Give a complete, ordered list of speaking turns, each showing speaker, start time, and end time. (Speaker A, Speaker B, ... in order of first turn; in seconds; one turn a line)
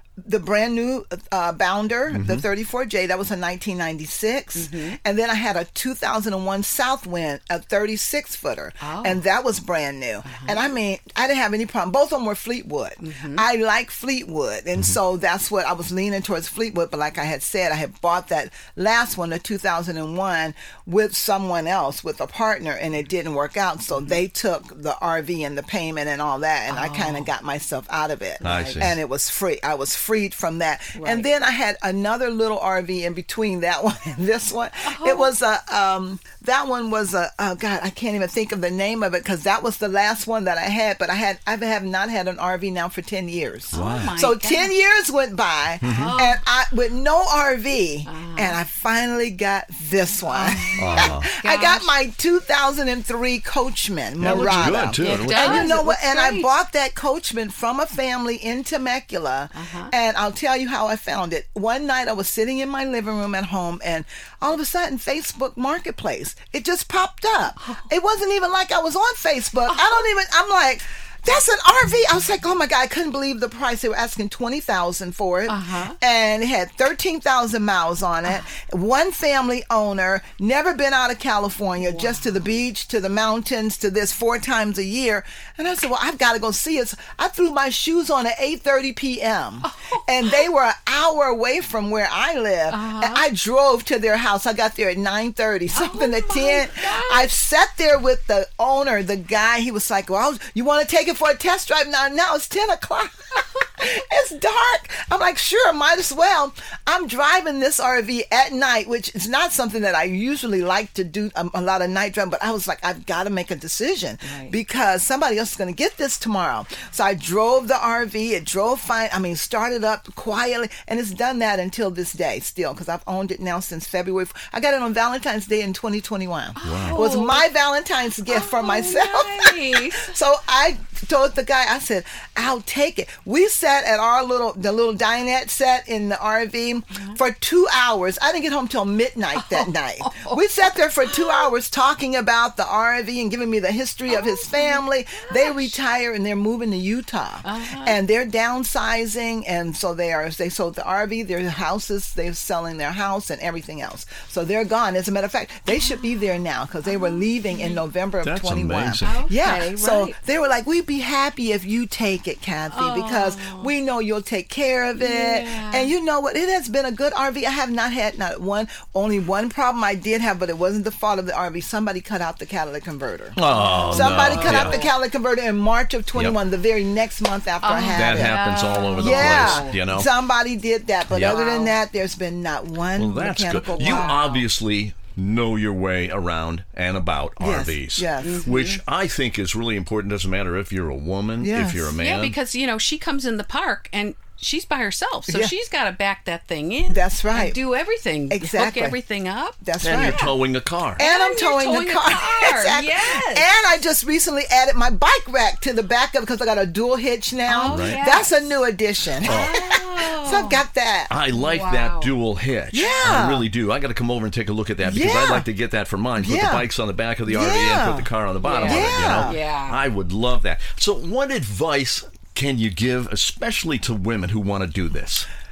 Speaker A: 0.2-178.4
Speaker B: 2.1-2.4
Speaker C: 4.5-5.0
Speaker C: 8.8-9.2
Speaker C: 10.2-10.6
Speaker C: 13.0-13.4
Speaker C: 26.7-27.3
Speaker C: 28.4-28.9
Speaker B: 28.4-29.0
Speaker C: 30.9-31.3
Speaker C: 34.8-35.3
Speaker B: 43.7-44.1
Speaker C: 43.7-44.7
Speaker B: 45.8-46.1
Speaker C: 45.8-46.4
Speaker C: 48.0-48.6
Speaker C: 50.2-51.9
Speaker B: 50.8-51.3
Speaker B: 54.2-55.8
Speaker C: 54.2-56.5
Speaker C: 59.5-59.9
Speaker C: 69.7-70.0
Speaker C: 75.5-76.0
Speaker C: 81.8-82.3
Speaker C: 89.6-90.5
Speaker C: 92.7-93.3
Speaker C: 95.7-97.3
Speaker C: 114.2-114.5
Speaker C: 126.5-127.4
Speaker B: 126.6-127.0
Speaker C: 128.3-130.1
Speaker C: 136.9-137.2
Speaker C: 139.3-141.5
Speaker C: 144.1-145.8
Speaker C: 147.4-148.0
Speaker C: 156.8-157.8
Speaker B: 158.2-159.2
Speaker C: 159.0-160.1
Speaker C: 162.7-163.7
Speaker C: 165.0-165.9
Speaker B: 173.3-174.8
Speaker C: 173.4-174.9
Speaker C: 177.6-179.9
Speaker B: 177.9-180.1
Speaker A: 179.0-184.2
Speaker B: 181.1-181.4
Speaker C: 181.2-181.8
Speaker B: 182.9-192.3
Speaker C: 183.8-184.4
Speaker A: 187.4-188.4
Speaker C: 188.2-188.8
Speaker A: 191.4-191.9
Speaker C: 192.0-200.4
Speaker A: 195.3-195.5
Speaker A: 196.9-197.6
Speaker A: 198.3-199.0
Speaker A: 199.6-200.2
Speaker B: 199.8-201.0
Speaker A: 201.0-211.1
Speaker C: 201.0-203.5
Speaker C: 207.5-208.6
Speaker B: 207.7-208.0
Speaker C: 209.2-210.6
Speaker B: 209.2-209.5
Speaker B: 211.1-225.3
Speaker C: 211.3-212.1
Speaker A: 212.7-213.5
Speaker A: 214.8-215.5
Speaker A: 216.2-216.6
Speaker A: 217.3-218.1
Speaker C: 218.4-219.8
Speaker A: 218.6-219.4